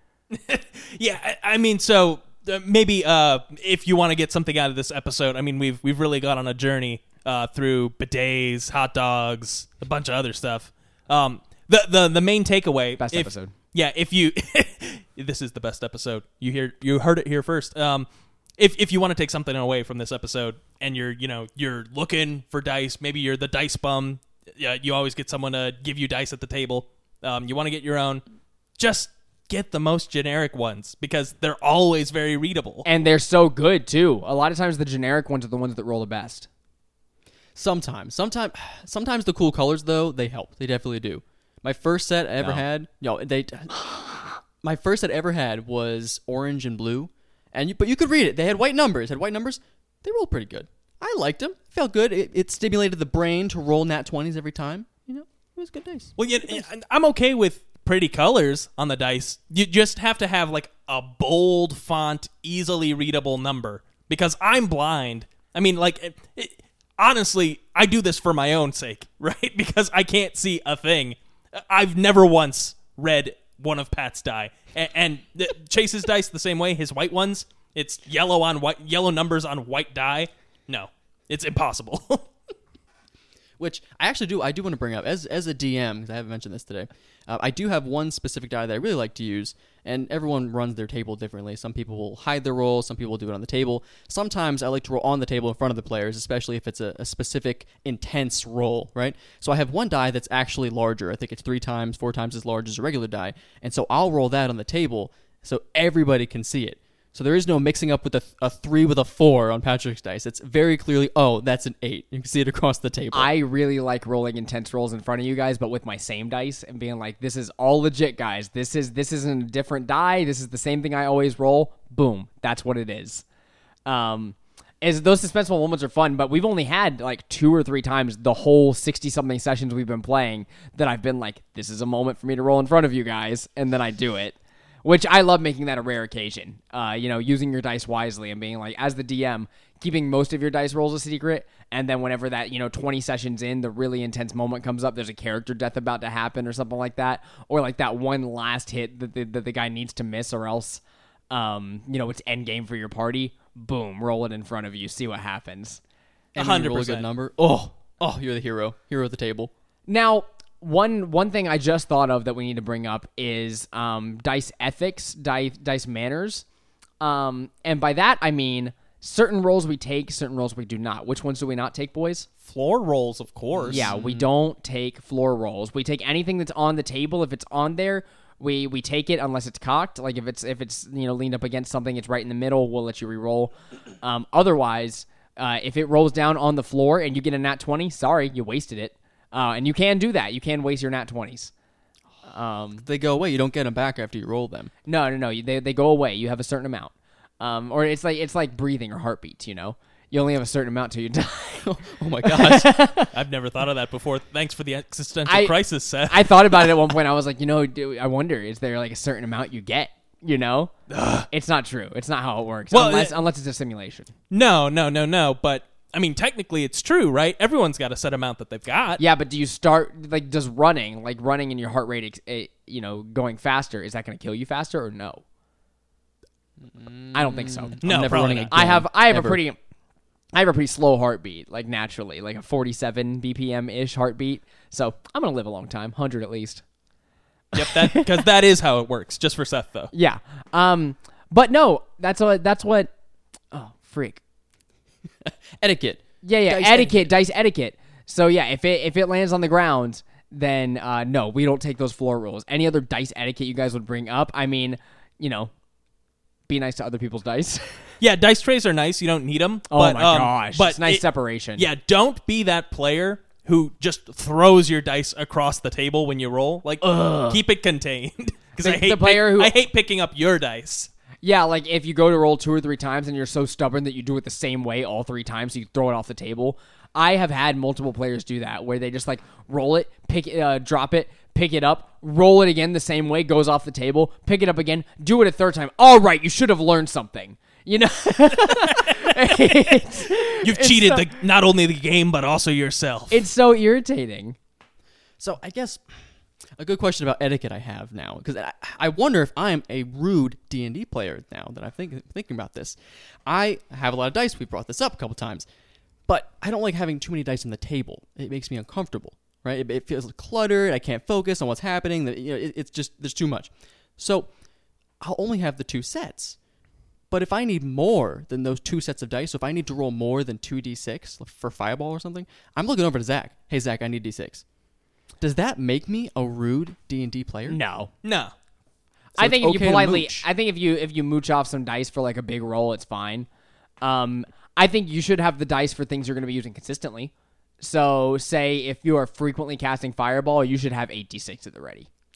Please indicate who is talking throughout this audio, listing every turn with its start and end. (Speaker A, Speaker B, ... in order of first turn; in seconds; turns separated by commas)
Speaker A: 0.3-18.1, Speaker B: 13.0-13.5, Speaker A: 18.6-28.2, Speaker A: 28.8-32.9, Speaker B: 32.9-36.5, Speaker C: 37.5-56.1, Speaker A: 56.2-82.3, Speaker C: 83.6-113.3, Speaker B: 113.1-123.2, Speaker B: 123.8-155.8, Speaker C: 156.3-159.5, Speaker A: 156.4-157.1, Speaker B: 159.9-166.4, Speaker B: 167.0-172.3, Speaker A: 172.4-173.9, Speaker C: 173.6-174.3, Speaker B: 173.7-191.5, Speaker B: 192.2-192.8, Speaker C: 192.8-194.7, Speaker B: 194.8-201.7, Speaker C: 201.6-202.7, Speaker B: 202.2-203.1, Speaker A: 203.1-206.7, Speaker B: 205.2-205.5, Speaker B: 206.1-210.7, Speaker A: 210.9-211.3, Speaker B: 211.3-214.1, Speaker A: 212.7-213.2, Speaker A: 214.3-219.0, Speaker B: 219.0-225.2, Speaker C: 226.7-229.4, Speaker B: 227.1-229.6, Speaker A: 227.8-228.6, Speaker B: 230.3-236.6, Speaker A: 237.5-239.9, Speaker B: 237.6-238.0, Speaker B: 239.9-242.9, Speaker B: 243.5-244.2, Speaker C: 245.2-247.0, Speaker B: 246.2-255.5, Speaker B: 256.5-257.9, Speaker A: 258.0-261.0, Speaker B: 259.7-261.6, Speaker A: 261.6-270.9, Speaker B: 266.8-267.4, Speaker B: 268.6-269.5, Speaker B: 271.2-291.1, Speaker A: 290.4-293.2, Speaker B: 293.1-294.4, Speaker C: 295.2-296.0, Speaker C: 296.6-305.4, Speaker C: 306.1-314.3, Speaker C: 315.0-316.4, Speaker C: 317.1-324.4, Speaker C: 325.2-327.6, Speaker B: 327.5-327.9, Speaker A: 328.0-328.3, Speaker C: 329.2-330.3, Speaker B: 329.2-333.3, Speaker B: 333.8-341.9